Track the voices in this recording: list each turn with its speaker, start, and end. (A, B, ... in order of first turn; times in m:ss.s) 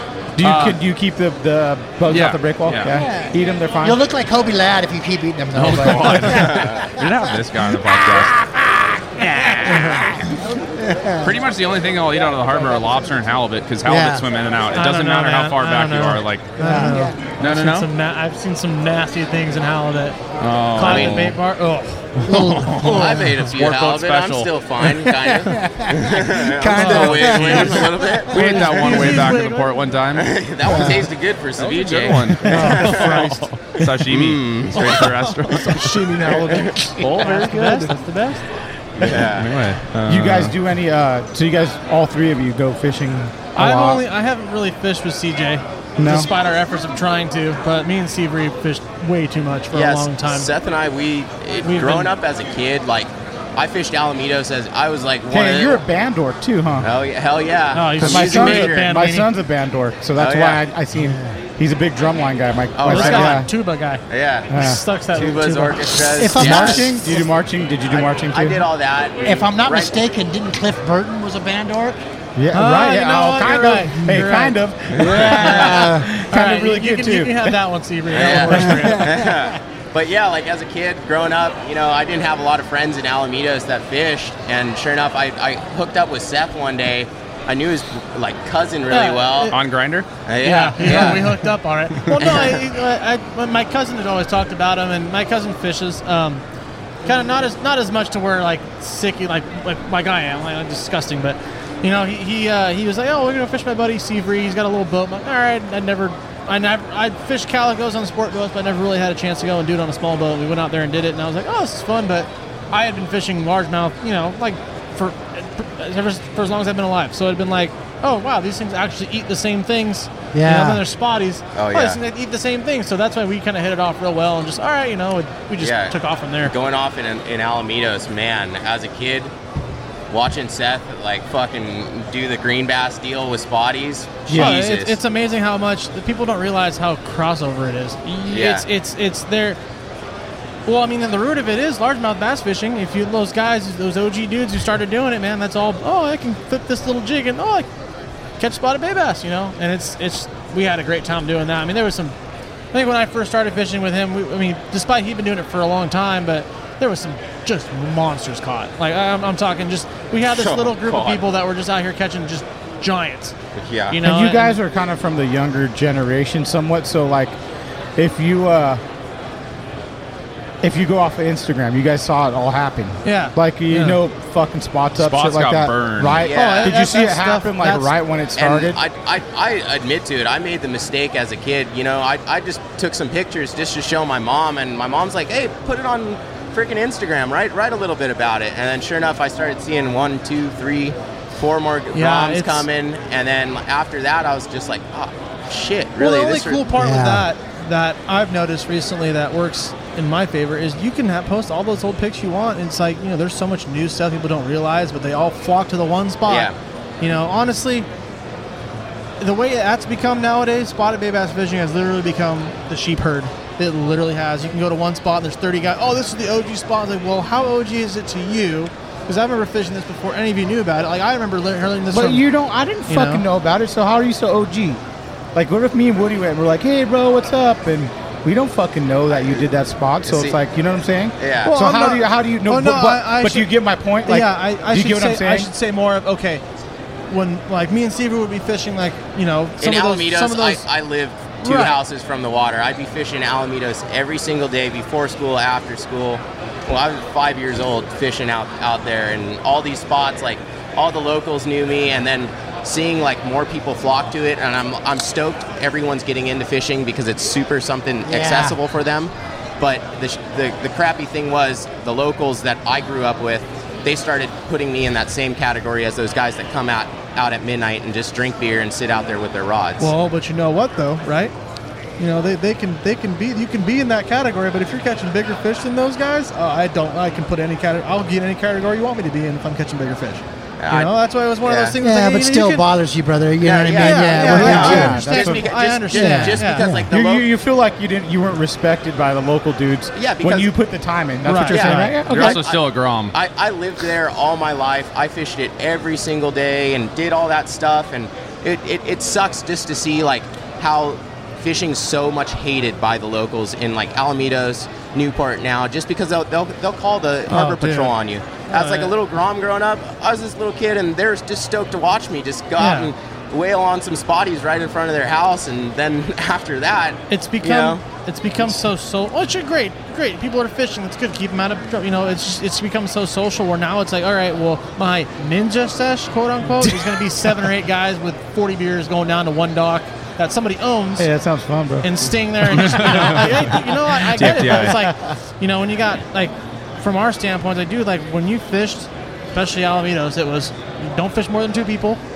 0:00.4-0:04.0 A
0:00.4-0:00.8 B
0:02.1-0:03.0 B
0:02.9-0:06.9 C
0:05.5-0:08.3 B
0:06.4-0:06.8 D
0:07.7-0:11.3 C
0:09.3-0:10.0 B
0:09.7-0:10.1 E
0:11.2-0:17.9 B
0:13.8-0:14.2 C
0:14.7-0:20.2 E
0:16.6-0:17.2 C
0:20.4-0:21.3 B
0:20.7-0:23.0 E
0:20.8-0:21.4 D
0:22.3-0:23.4 C
0:22.8-0:29.3 D
0:23.5-0:24.5 B
0:25.0-0:28.2 C
0:26.7-0:30.0 E
0:28.3-0:30.4 B
0:30.1-0:33.1 D
0:30.6-0:31.0 C
0:31.6-0:36.3 B
0:32.5-0:32.9 A
0:32.5-0:33.6 E
0:34.0-0:35.2 D
0:34.7-0:38.5 E
0:36.4-0:36.7 D
0:36.4-0:36.7 A
0:37.0-0:37.9 B
0:37.2-0:37.9 A
0:39.0-0:39.5 D
0:39.0-0:40.5 B
0:40.1-0:44.0 A
0:43.6-0:50.5 E
0:46.0-0:46.3 A
0:49.7-0:55.8 D
0:51.6-0:52.1 E
0:55.3-0:56.9 A
0:56.8-0:58.9 D
0:57.7-0:59.3 E
0:58.0-1:03.5 A
1:00.2-1:00.6 D
1:01.0-1:01.4 C
1:02.8-1:03.5 D
1:02.9-1:06.2 E
1:04.1-1:04.6 D
1:04.5-1:04.8 A
1:05.1-1:07.2 D
1:06.2-1:07.3 C
1:06.3-1:08.6 A
1:07.9-1:10.0 D
1:09.2-1:12.0 C
1:12.4-1:17.5 A
1:12.5-1:14.6 E
1:15.0-1:15.8 D
1:15.2-1:19.1 E
1:15.2-1:16.1 C
1:18.1-1:29.6 D
1:28.9-1:29.6 E
1:29.5-1:30.1 B
1:30.3-1:31.5 D
1:30.4-1:36.4 E
1:32.1-1:32.7 D
1:37.0-2:06.5 E
2:00.3-2:00.8 C
2:01.6-2:02.0 D
2:05.6-2:09.3 D
2:10.1-2:15.0 D
2:14.3-2:14.6 A
2:14.3-2:19.6 E
2:18.2-2:18.7 D
2:20.7-2:27.7 E
2:28.4-2:32.2 E
2:32.7-2:43.4 E
2:40.3-2:41.2 D
2:43.6-2:44.0 D
2:43.9-2:44.6 E
2:44.0-2:47.4 A
2:48.0-2:48.8 A
2:50.6-2:58.8 A
2:53.0-2:54.0 E
2:55.0-2:56.3 B
2:56.2-2:56.8 D
2:56.3-2:58.0 E
2:58.4-3:16.7 D
3:11.9-3:12.7 E
3:16.0-3:27.9 E
3:16.8-3:17.3 C
3:26.3-3:26.5 D
3:29.2-3:42.3 E
3:41.9-3:44.8 A
3:42.9-3:43.2 E
3:45.4-3:55.5 A
3:50.0-3:50.4 D
3:51.2-3:52.0 D
3:52.4-3:53.5 E
3:54.0-3:56.4 E
3:57.1-4:00.7 E
3:59.6-4:29.9 D
4:01.4-4:01.8 E
4:18.1-4:18.6 C
4:29.8-4:31.3 E
4:32.0-4:42.7 E
4:40.6-4:41.8 D
4:41.8-4:45.1 C
4:43.4-4:47.3 D
4:43.7-4:46.6 E
4:44.2-4:45.5 A
4:45.9-4:46.9 C
4:46.9-4:52.4 A
4:50.0-4:50.5 D
4:51.2-4:52.0 E
4:51.5-5:17.8 D
4:52.0-4:53.2 B
5:07.3-5:08.9 E
5:12.6-5:12.9 E
5:17.1-5:31.1 E
5:31.0-5:31.9 A
5:31.8-5:42.0 E
5:32.5-5:33.6 B
5:34.1-5:34.8 B
5:34.5-5:34.9 A